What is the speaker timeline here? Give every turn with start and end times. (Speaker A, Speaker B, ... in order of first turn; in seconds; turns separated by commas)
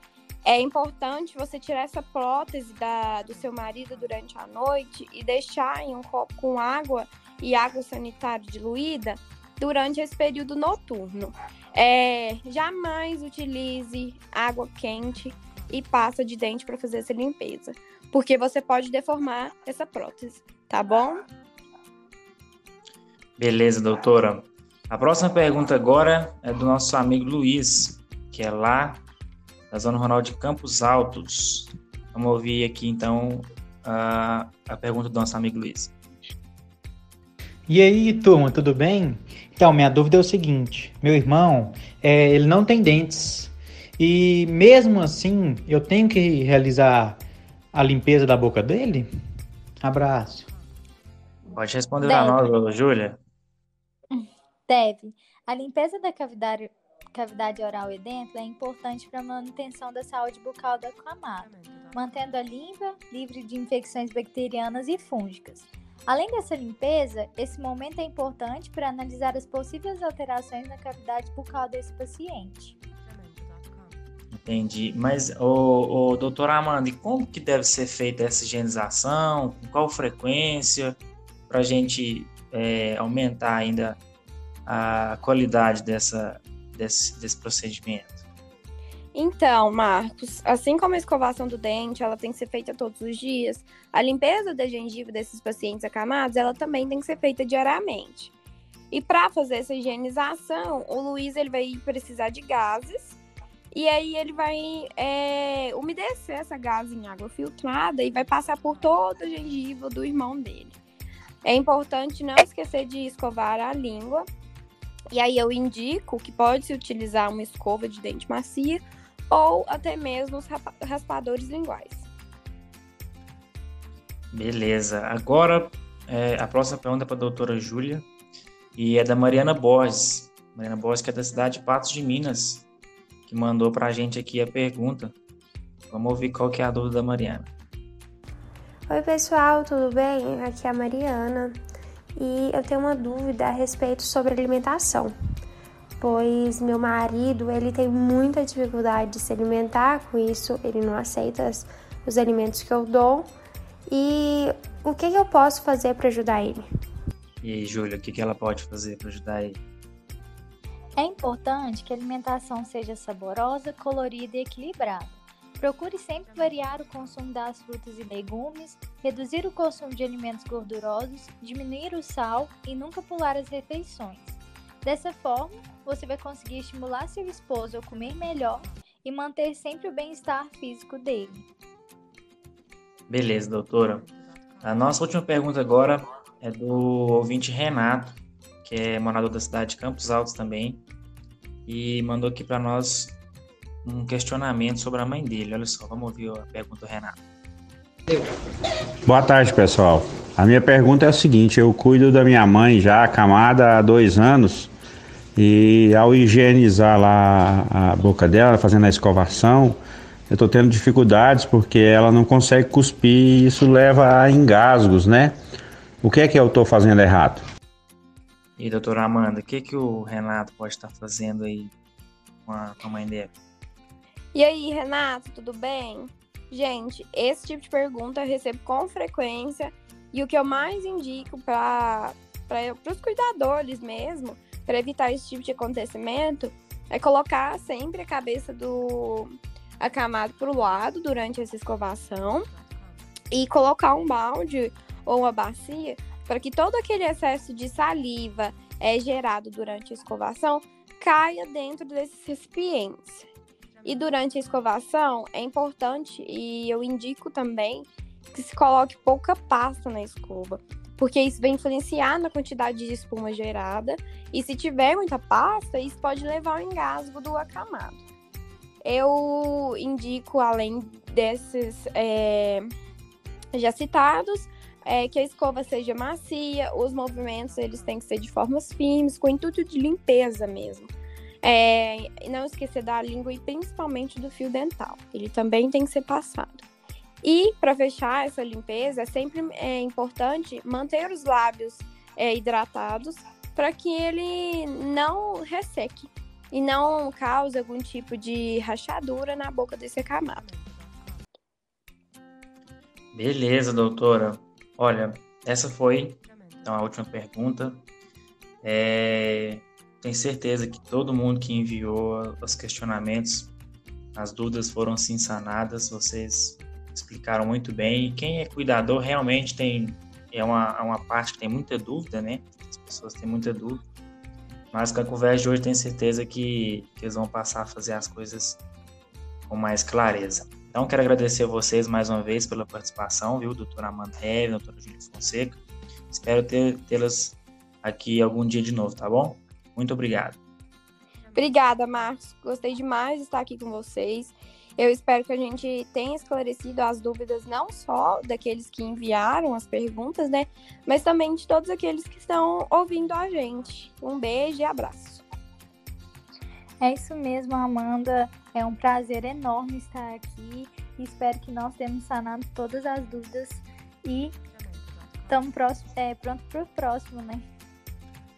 Speaker A: 0.4-21.2, Speaker B: 23.4-29.0, Speaker B: 29.7-35.9, Speaker C: 37.7-47.2, Speaker C: 47.7-49.1, Speaker C: 49.8-50.5, Speaker B: 51.5-53.2, Speaker D: 52.0-52.5, Speaker D: 54.1-72.7, Speaker B: 74.3-81.0, Speaker B: 81.5-84.0, Speaker B: 84.7-88.2, Speaker A: 89.1-98.3, Speaker A: 98.9-103.2, Speaker A: 103.7-110.8, Speaker A: 111.4-114.3, Speaker A: 115.1-122.0, Speaker B: 124.3-128.1, Speaker B: 128.8-132.7, Speaker B: 133.3-135.1, Speaker B: 135.9-137.5, Speaker E: 138.9-141.6, Speaker E: 142.2-145.1, Speaker E: 146.0-153.3, Speaker E: 153.9-156.7, Speaker B: 157.4-159.6, Speaker D: 161.0-181.4, Speaker B: 183.1-184.1, Speaker B: 184.6-190.8, Speaker B: 191.7-193.2, Speaker B: 193.8-197.2, Speaker F: 199.1-204.7, Speaker F: 205.3-209.8, Speaker F: 210.3-215.3, Speaker F: 216.0-217.4, Speaker B: 218.6-221.7, Speaker B: 222.4-223.3, Speaker A: 224.3-242.5, Speaker A: 243.3-253.2, Speaker A: 253.8-268.0, Speaker A: 268.8-272.7, Speaker A: 273.5-280.9, Speaker A: 281.4-286.6, Speaker A: 287.2-300.5, Speaker B: 303.1-307.9, Speaker B: 308.6-313.5, Speaker B: 314.1-323.8, Speaker B: 324.7-328.6, Speaker B: 329.4-335.6, Speaker B: 336.1-340.4, Speaker A: 341.3-355.2, Speaker D: 356.8-364.3, Speaker D: 365.3-367.4